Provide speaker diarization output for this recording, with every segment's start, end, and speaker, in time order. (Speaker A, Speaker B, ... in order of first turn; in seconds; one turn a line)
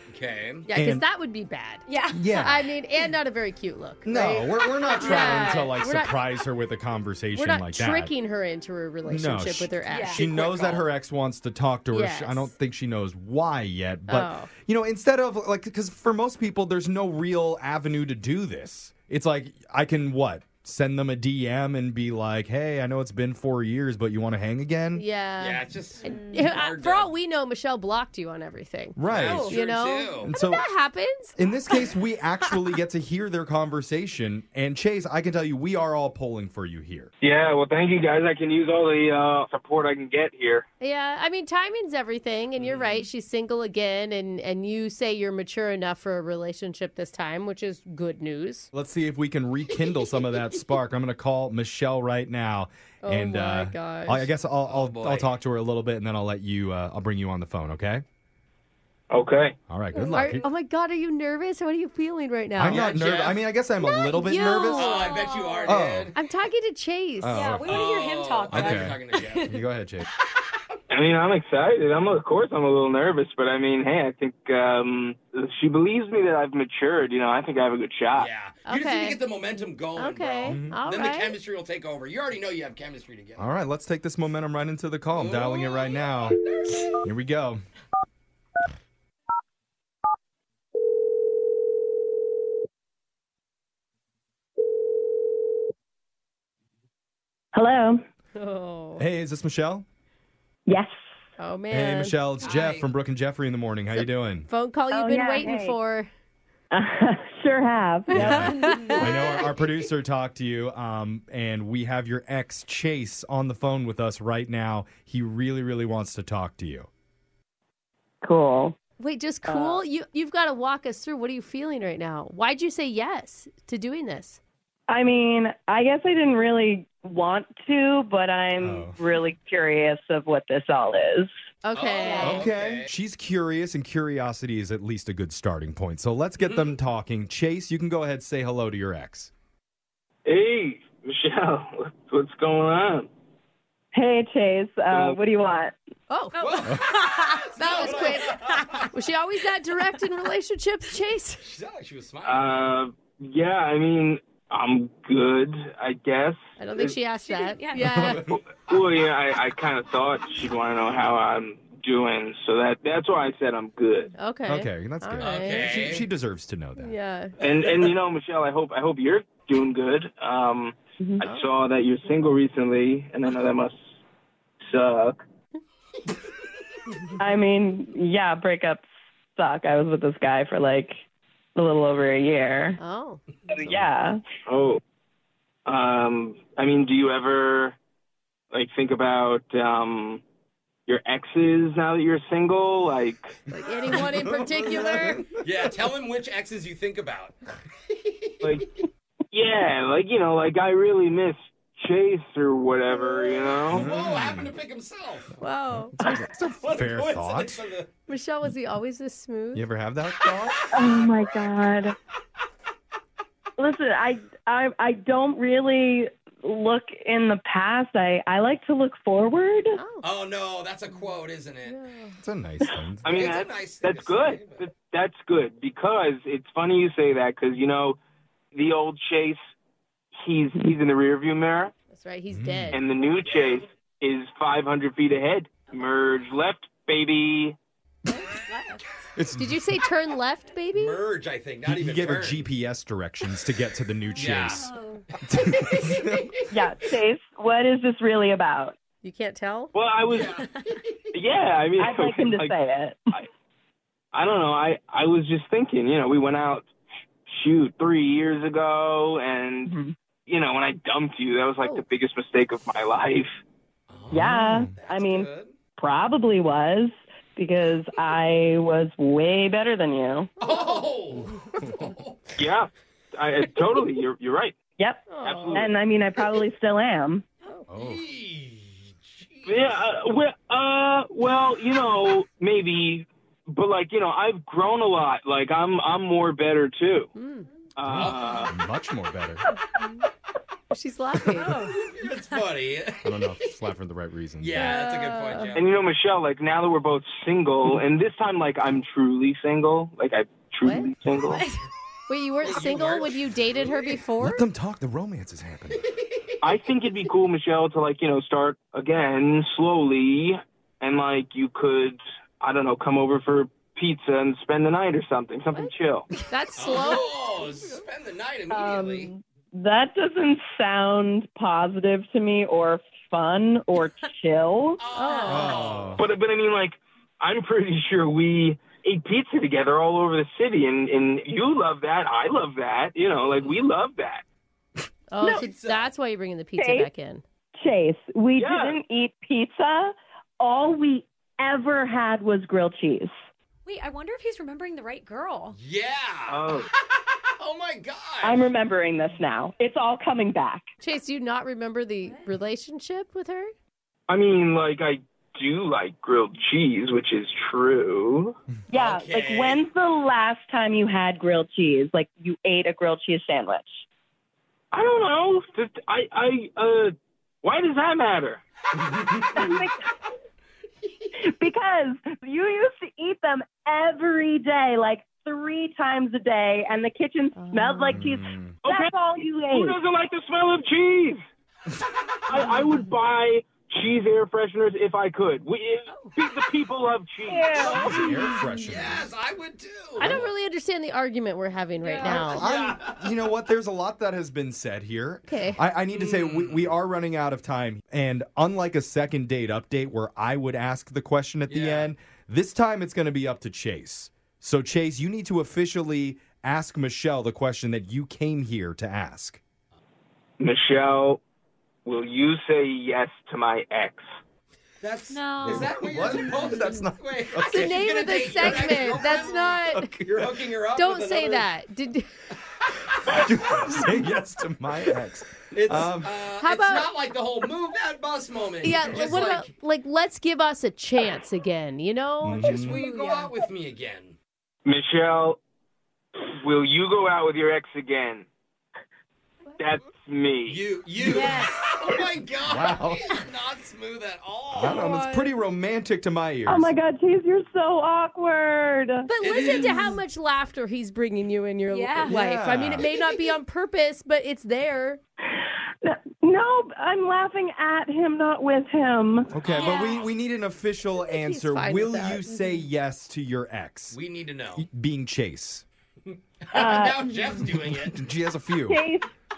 Speaker A: 0.1-0.7
Speaker B: 0.7-6.2
Speaker C: 0.7-1.1
Speaker D: 1.9-2.2
Speaker C: 2.1-2.7
Speaker C: 4.1-8.1
Speaker B: 7.3-10.4
Speaker C: 9.1-25.1
Speaker D: 9.9-10.2
Speaker A: 10.3-10.9
Speaker B: 11.9-12.5
Speaker B: 14.1-14.5
Speaker B: 25.0-31.9
Speaker A: 25.4-27.1
Speaker D: 26.1-26.5
Speaker C: 29.0-29.6
Speaker A: 29.1-30.3
Speaker D: 29.3-29.6
Speaker C: 30.2-30.7
Speaker C: 31.4-37.1
Speaker E: 37.2-40.7
Speaker B: 40.8-48.7
Speaker C: 48.7-58.0
Speaker A: 49.8-50.4
Speaker B: 53.0-54.3
Speaker A: 54.7-55.4
Speaker E: 59.1-59.6
Speaker C: 59.7-60.5
Speaker D: 59.9-60.3
Speaker B: 60.1-62.9
Speaker C: 62.5-64.9
Speaker A: 62.6-63.4
Speaker B: 63.8-67.5
Speaker A: 64.7-66.2
Speaker D: 64.9-65.8
Speaker C: 65.7-66.1
Speaker C: 67.2-67.9
Speaker D: 67.3-69.5
Speaker A: 67.6-69.5
Speaker C: 68.5-70.1
Speaker E: 70.9-78.3
Speaker A: 78.2-83.5
Speaker B: 78.7-79.2
Speaker B: 80.0-81.4
Speaker C: 80.5-80.8
Speaker C: 83.4-86.4
Speaker A: 85.1-86.9
Speaker C: 87.0-87.6
Speaker F: 97.5-98.0
Speaker B: 98.4-99.0
Speaker C: 99.0-99.9
Speaker F: 100.7-100.9
Speaker B: 101.4-102.2
Speaker C: 101.7-104.5
Speaker A: 102.4-102.9
Speaker B: 104.5-106.1
Speaker F: 104.9-105.8
Speaker F: 106.7-108.5
Speaker C: 108.1-116.9
Speaker D: 108.3-109.1
Speaker F: 109.2-109.5
Speaker F: 118.2-118.8
Speaker B: 119.0-124.4
Speaker F: 119.5-119.8
Speaker F: 124.9-131.3
Speaker C: 128.6-129.0
Speaker B: 131.6-132.5
Speaker A: 131.7-132.9
Speaker C: 132.2-139.3
Speaker A: 136.4-136.7
Speaker E: 140.3-143.1
Speaker F: 143.9-145.8
Speaker E: 144.9-145.2
Speaker B: 146.1-146.6
Speaker D: 146.3-147.4
Speaker A: 146.4-148.9
Speaker B: 147.6-151.4
Speaker A: 151.4-152.7
Speaker E: 152.2-156.9
Speaker B: 156.6-158.2
Speaker D: 157.2-158.1
Speaker C: 157.8-158.4
Speaker E: 158.3-164.1
Speaker B: 164.2-165.7
Speaker C: 164.5-166.9
Speaker A: 165.2-166.1
Speaker B: 166.8-167.3
Speaker E: 167.4-173.8
Speaker E: 174.7-175.2
Speaker F: 177.2-181.0
Speaker F: 181.6-182.8
Speaker B: 182.8-183.2
Speaker F: 183.5-184.2
Speaker E: 184.5-184.8
Speaker E: 185.7-187.8
Speaker E: 188.5-190.2
Speaker E: 190.9-193.3
Speaker B: 193.5-195.2
Speaker C: 193.9-195.2
Speaker A: 195.3-197.3
Speaker A: 198.0-198.6
Speaker E: 198.4-198.7
Speaker E: 199.3-203.8
Speaker A: 203.6-205.3
Speaker C: 203.7-204.5
Speaker B: 205.4-206.0
Speaker C: 205.9-207.6
Speaker A: 206.4-207.9
Speaker B: 208.1-209.7
Speaker C: 209.5-210.7
Speaker A: 210.6-211.1
Speaker F: 210.7-211.9
Speaker F: 213.6-219.8
Speaker B: 219.8-220.1
Speaker A: 220.0-221.8
Speaker B: 221.7-222.2
Speaker C: 222.2-223.1
Speaker A: 223.1-224.7
Speaker E: 223.1-228.0
Speaker E: 228.6-229.4
Speaker E: 230.2-231.7
Speaker B: 231.9-232.8
Speaker C: 232.3-232.8
Speaker E: 232.7-237.6
Speaker A: 233.2-233.6
Speaker B: 238.1-238.5
Speaker C: 239.2-239.8
Speaker B: 239.4-241.0
Speaker A: 240.7-242.5
Speaker C: 241.7-244.7
Speaker A: 244.1-246.5
Speaker D: 244.6-245.0
Speaker C: 245.2-246.3
Speaker F: 246.5-248.8
Speaker B: 249.0-249.7
Speaker E: 249.7-250.4
Speaker A: 250.0-251.0
Speaker E: 251.1-252.6
Speaker F: 251.8-253.0
Speaker E: 254.1-256.7
Speaker E: 257.3-259.7
Speaker F: 259.7-259.9
Speaker E: 260.3-263.3
Speaker A: 263.9-265.5
Speaker F: 264.1-270.3
Speaker C: 264.2-264.7
Speaker A: 270.4-272.3
Speaker E: 272.4-274.6
Speaker F: 274.8-277.3
Speaker B: 275.1-275.7
Speaker E: 275.2-275.8
Speaker C: 277.7-278.0
Speaker A: 277.8-279.7
Speaker E: 279.5-287.1
Speaker B: 287.2-287.5
Speaker E: 287.8-288.5
Speaker C: 287.9-289.5
Speaker A: 288.0-288.5
Speaker B: 290.7-291.6
Speaker D: 291.3-291.8
Speaker A: 291.5-293.5
Speaker C: 293.0-294.7
Speaker A: 294.4-295.8
Speaker B: 294.6-295.6
Speaker E: 295.6-301.4
Speaker B: 300.6-300.9
Speaker D: 301.3-301.6
Speaker B: 302.1-304.4
Speaker A: 302.4-304.1
Speaker C: 304.2-305.8
Speaker A: 305.9-306.3
Speaker E: 306.4-316.1
Speaker B: 316.3-317.2
Speaker A: 316.5-319.1
Speaker F: 318.5-324.8
Speaker A: 324.8-326.1
Speaker B: 325.0-325.5
Speaker D: 325.0-325.3
Speaker C: 325.3-326.1
Speaker E: 326.0-334.2
Speaker B: 335.1-337.2
Speaker A: 335.3-335.9
Speaker F: 336.6-336.9
Speaker F: 337.6-343.1
Speaker E: 338.4-338.8
Speaker D: 343.7-345.6
Speaker A: 345.5-346.9
Speaker E: 346.3-346.7
Speaker A: 347.4-348.4
Speaker F: 348.2-350.7
Speaker B: 350.8-353.5
Speaker D: 352.0-352.3
Speaker E: 354.1-358.4
Speaker F: 358.7-363.8
Speaker A: 358.7-359.6
Speaker E: 364.7-366.9
Speaker E: 367.4-368.4
Speaker A: 368.8-369.4
Speaker F: 369.3-369.8
Speaker F: 371.2-379.8
Speaker B: 377.4-378.0
Speaker C: 377.9-378.6
Speaker E: 378.6-378.9
Speaker E: 379.5-381.2
Speaker E: 382.3-387.8
Speaker F: 387.3-388.2
Speaker C: 387.6-389.1
Speaker A: 388.6-390.2
Speaker B: 390.0-392.5
Speaker C: 390.0-390.3
Speaker D: 391.8-392.3
Speaker C: 392.1-409.4
Speaker A: 392.1-393.1
Speaker B: 395.3-395.6
Speaker A: 395.9-396.8
Speaker A: 401.5-401.9
Speaker E: 410.4-411.2
Speaker E: 411.9-414.0
Speaker A: 414.8-421.5
Speaker D: 415.1-416.7
Speaker C: 415.4-417.9
Speaker B: 417.5-419.9
Speaker C: 418.4-420.3
Speaker B: 420.7-422.1
Speaker C: 423.1-426.1
Speaker A: 425.5-429.5
Speaker B: 426.3-426.9
Speaker B: 428.6-433.3
Speaker C: 432.2-432.8
Speaker A: 432.3-434.2
Speaker E: 434.6-435.4
Speaker E: 436.3-438.3
Speaker E: 439.6-440.6
Speaker A: 440.5-444.9
Speaker D: 441.1-441.7
Speaker C: 441.1-441.5
Speaker C: 442.5-443.1
Speaker C: 444.5-446.7
Speaker B: 444.6-445.3
Speaker F: 446.5-449.1
Speaker B: 449.1-455.0
Speaker A: 449.2-450.0
Speaker D: 451.7-452.2
Speaker C: 452.1-452.9
Speaker F: 455.3-459.3
Speaker C: 459.3-464.0
Speaker A: 459.4-460.1
Speaker D: 459.5-460.1
Speaker B: 461.1-462.2
Speaker A: 463.9-464.7
Speaker C: 464.6-465.6
Speaker A: 466.1-468.1
Speaker F: 466.5-467.1
Speaker C: 467.9-468.8
Speaker F: 468.7-469.1